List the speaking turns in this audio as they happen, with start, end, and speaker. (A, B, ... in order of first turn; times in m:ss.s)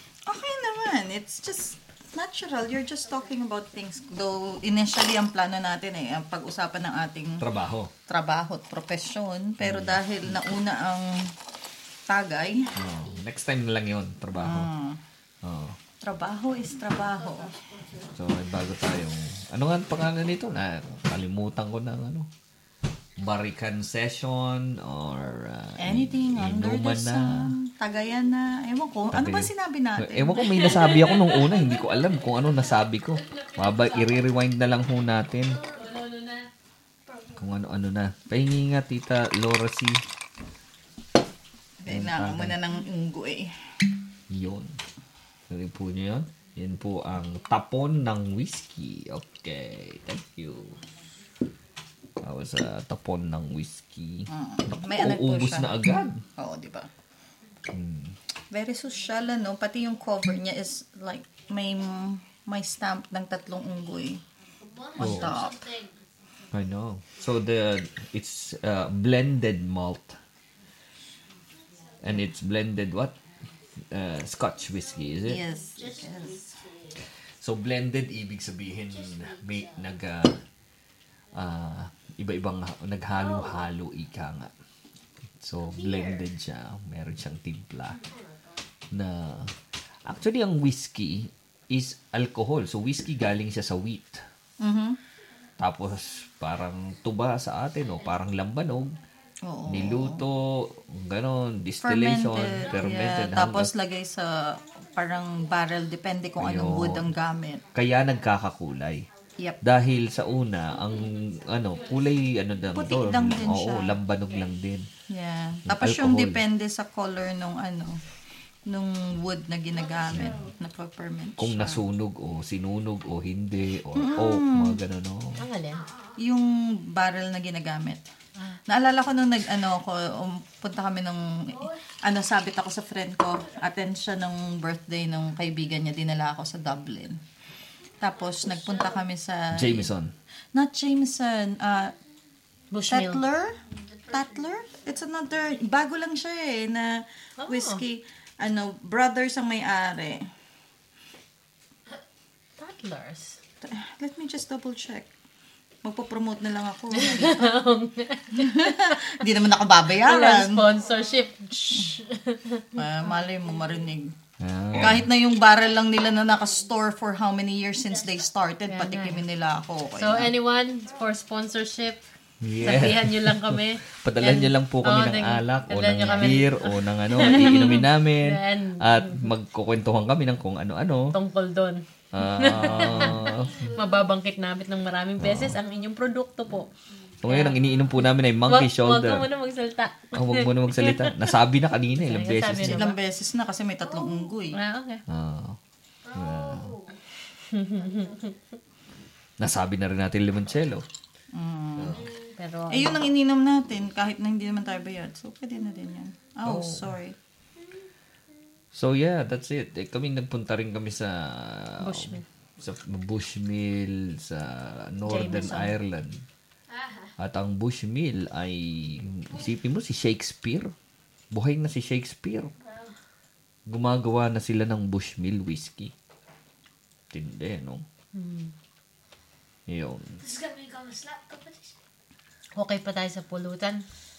0:00.3-0:07.4 A
0:07.4-0:07.9 B
0:08.1-0:11.3 A
0:09.6-0:10.4 B
0:12.1-0:12.7 A
0:12.7-0:13.2 C
0:12.7-0:14.7 B
0:14.3-0:15.0 A
0:15.4-0:15.8 B
0:16.0-0:17.5 A
0:17.0-0:18.3 C
0:18.1-0:22.3 B
0:23.2-0:27.6 B
0:25.8-0:30.9 A
0:29.1-0:35.6 B
0:30.5-0:32.0 D
0:33.1-0:34.3 D
0:35.4-0:35.9 C
0:35.6-0:36.5 D
0:37.0-0:37.6 C
0:37.4-0:40.0 B
0:41.8-0:43.5 A
0:41.9-0:42.6 B
0:44.3-0:44.7 B
0:45.5-0:50.8 B
0:52.2-0:56.2 B
0:54.3-0:55.8 A
0:56.4-0:56.9 A
0:57.7-0:58.2 B
0:58.5-1:04.2 A
1:04.6-1:06.0 C
1:05.0-1:05.6 A
1:05.0-1:05.3 B
1:06.5-1:10.2 B
1:11.8-1:12.2 C
1:12.0-1:13.1 B
1:13.8-1:15.4 B
1:14.7-1:17.0 C
1:15.2-1:16.5 A
1:17.4-1:20.4 B
1:18.9-1:20.0 C
1:21.3-1:24.5 B
1:23.1-1:23.7 C
1:25.4-1:28.0 B
1:25.6-1:26.3 C
1:27.9-1:28.6 C
1:28.9-1:29.5 B
1:30.0-1:34.2 B
1:34.6-1:35.0 A
1:35.6-1:39.0 B
1:39.4-1:40.2 A
1:39.7-1:43.7 B
1:41.8-1:47.6 A
1:44.6-1:45.6 C
1:46.4-1:47.1 B
1:47.6-1:48.4 C
1:47.7-1:49.0 B
1:49.0-1:52.3 C
1:49.6-1:54.9 B
1:52.7-1:54.0 A
1:55.1-1:58.0 A
1:55.6-1:56.4 B
1:58.6-2:01.8 A
1:59.7-2:00.5 C
2:00.1-2:00.4 B
2:01.4-2:05.4 B
2:03.9-2:04.8 A
2:05.4-2:05.9 D
2:05.7-2:06.2 C
2:06.2-2:08.0 A
2:08.7-2:17.2 A
2:11.5-2:11.8 C
2:18.0-2:19.9 A
2:18.0-2:19.0 C
2:19.5-2:20.1 B
2:20.5-2:21.9 A
2:22.7-2:23.2 D
2:22.9-2:30.3 A
2:23.6-2:24.8 C
2:27.4-2:27.8 D
2:32.6-2:33.4 D
2:33.6-2:35.1 A
2:35.8-2:37.5 A
2:36.9-2:39.2 D
2:38.3-2:40.6 A
2:40.0-2:42.7 D
2:40.6-2:41.3 C
2:41.6-2:42.0 A
2:42.7-2:44.1 A
2:43.1-2:43.9 C
2:44.4-2:45.0 B
2:44.7-2:50.3 A
2:47.9-2:48.2 C
2:48.7-2:49.2 D
2:50.0-2:52.0 D
2:52.4-3:01.2 B
2:52.6-2:59.3 D
2:56.0-2:56.5 C
3:01.1-3:06.7 D
3:02.1-3:03.7 B
3:02.6-3:04.1 C
3:05.2-3:05.6 B
3:07.2-3:09.3 B
3:07.2-3:07.6 D
3:08.4-3:11.3 D
3:10.1-3:12.9 B
3:12.0-3:13.0 D
3:12.6-3:14.6 A
3:13.8-3:14.3 C
3:14.5-3:15.0 D
3:15.1-3:15.6 B
3:16.0-3:17.0 C
3:16.1-3:16.7 B
3:17.5-3:18.3 D
3:17.6-3:18.4 C
3:19.4-3:20.8 B
3:21.3-3:22.1 A
3:21.8-3:22.1 B
3:21.9-3:22.4 C
3:22.4-3:23.0 D
3:22.7-3:27.2 A
3:26.4-3:26.9 B
3:28.7-3:36.2 B
3:31.8-3:32.2 D
3:35.0-3:35.7 D
3:36.7-3:37.1 C
3:37.2-3:40.7 B
3:41.3-3:42.5 B
3:42.6-3:43.0 C
3:43.7-3:45.9 B
3:47.1-3:47.8 B
3:48.1-3:48.5 D
3:49.7-3:50.2 B
3:50.2-3:51.8 C
3:52.6-3:53.8 D